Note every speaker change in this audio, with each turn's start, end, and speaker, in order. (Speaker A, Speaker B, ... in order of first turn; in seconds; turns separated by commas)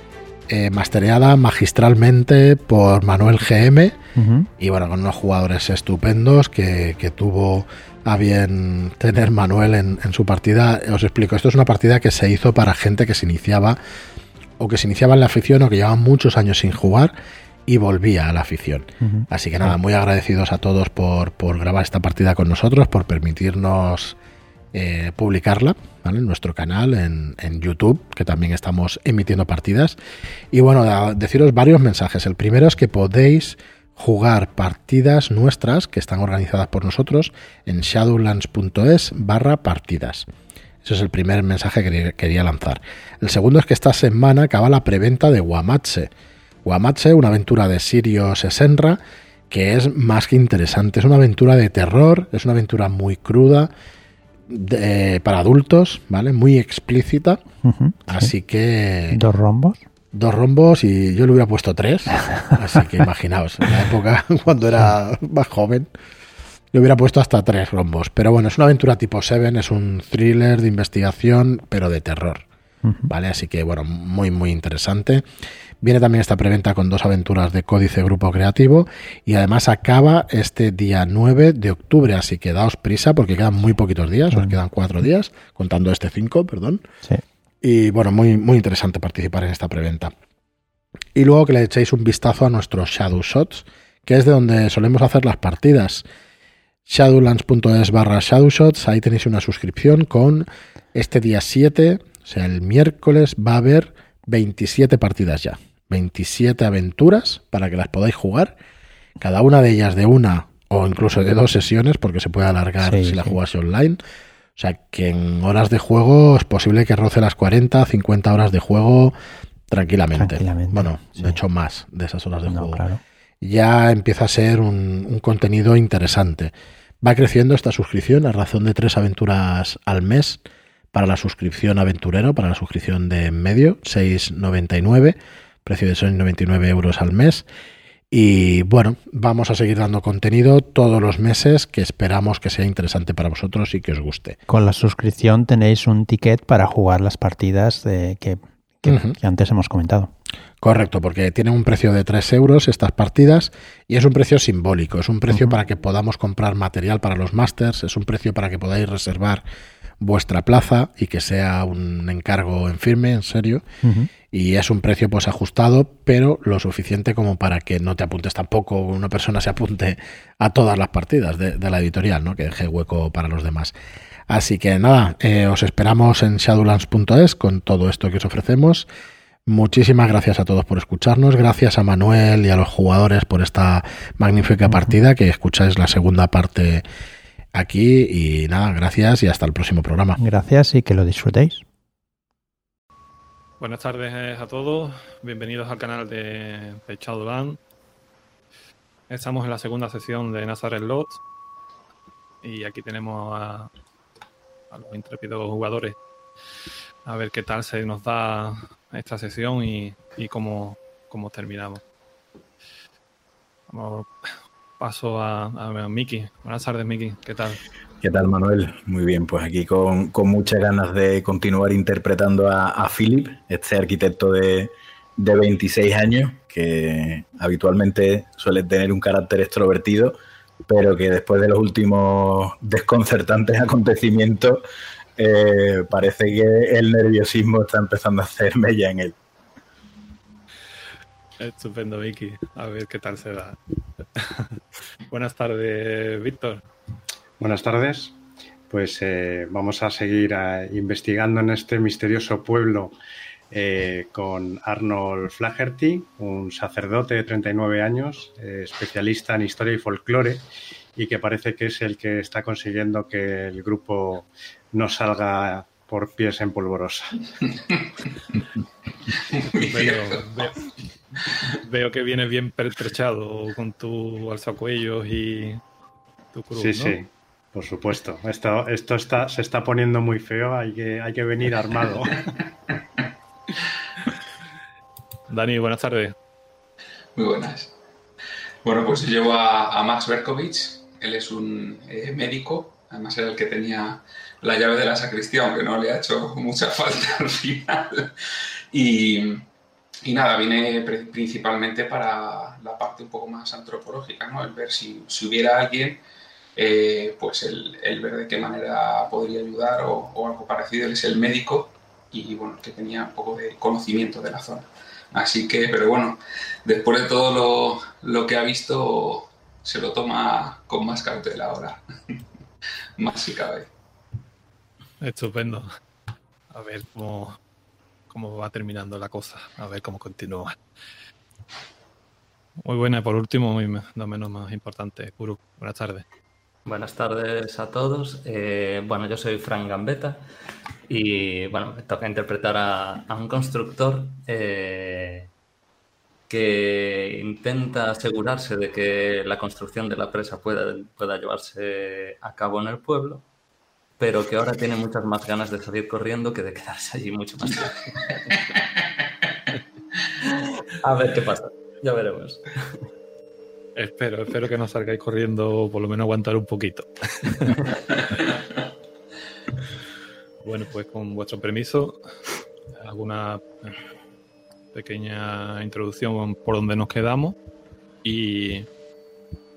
Speaker A: 0.5-4.0, Speaker B: 4.2-4.5, Speaker A: 4.6-13.8, Speaker A: 14.6-17.1, Speaker A: 17.7-24.2, Speaker B: 19.0-19.3, Speaker A: 24.7-30.0, Speaker A: 30.5-40.3, Speaker A: 40.8-46.1, Speaker A: 46.6-53.7, Speaker A: 54.5-57.5, Speaker B: 57.6-58.3, Speaker A: 58.1-59.2, Speaker B: 59.1-59.9, Speaker A: 60.1-65.9, Speaker A: 66.7-72.5, Speaker B: 72.8-73.1, Speaker A: 73.1-75.2, Speaker A: 75.8-86.9, Speaker B: 84.3-84.6, Speaker A: 87.6-90.1, Speaker A: 91.1-96.1, Speaker A: 96.9-108.6, Speaker A: 109.2-114.0, Speaker B: 112.8-113.4, Speaker A: 114.6-119.2, Speaker A: 119.7-122.9, Speaker B: 120.2-121.4, Speaker B: 122.5-123.0, Speaker A: 123.4-130.4, Speaker A: 130.9-137.4, Speaker A: 138.1-144.4, Speaker B: 144.5-150.1, Speaker A: 148.9-149.2, Speaker A: 150.6-159.4, Speaker B: 155.3-155.6, Speaker A: 160.0-173.7, Speaker B: 163.8-164.1, Speaker A: 174.3-178.9, Speaker A: 179.5-186.9, Speaker B: 184.7-185.0, Speaker A: 187.5-190.2, Speaker B: 190.2-191.7, Speaker C: 193.6-197.6, Speaker C: 199.1-201.2, Speaker C: 202.4-203.7, Speaker C: 204.7-206.0, Speaker C: 207.1-211.8, Speaker C: 213.7-214.1, Speaker C: 214.8-217.6, Speaker D: 218.0-230.2, Speaker D: 230.7-234.6, Speaker D: 235.2-239.2, Speaker C: 241.4-246.6, Speaker E: 247.4-248.2, Speaker E: 248.7-252.9, Speaker E: 253.5-260.4, Speaker E: 261.0-267.1, Speaker F: 267.4-268.4, Speaker F: 269.1-270.6, Speaker C: 269.4-270.7, Speaker C: 271.6-275.6, Speaker C: 276.3-277.0, Speaker E: 276.6-282.2, Speaker C: 285.3-286.1, Speaker F: 287.1-287.7, Speaker F: 288.6-298.1, Speaker F: 298.7-299.5, Speaker F: 300.1-306.0, Speaker F: 306.6-322.2, Speaker F: 323.0-323.7, Speaker C: 325.0-325.7, Speaker C: 326.5-327.4, Speaker C: 328.1-330.6, Speaker C: 332.6-336.1, Speaker G: 336.7-340.3, Speaker G: 340.9-345.3, Speaker G: 346.3-353.3, Speaker G: 354.0-358.2, Speaker G: 360.2-362.8, Speaker C: 363.8-367.7, Speaker C: 370.4-372.0, Speaker C: 372.8-373.8, Speaker C: 374.7-377.4, Speaker C: 378.0-378.7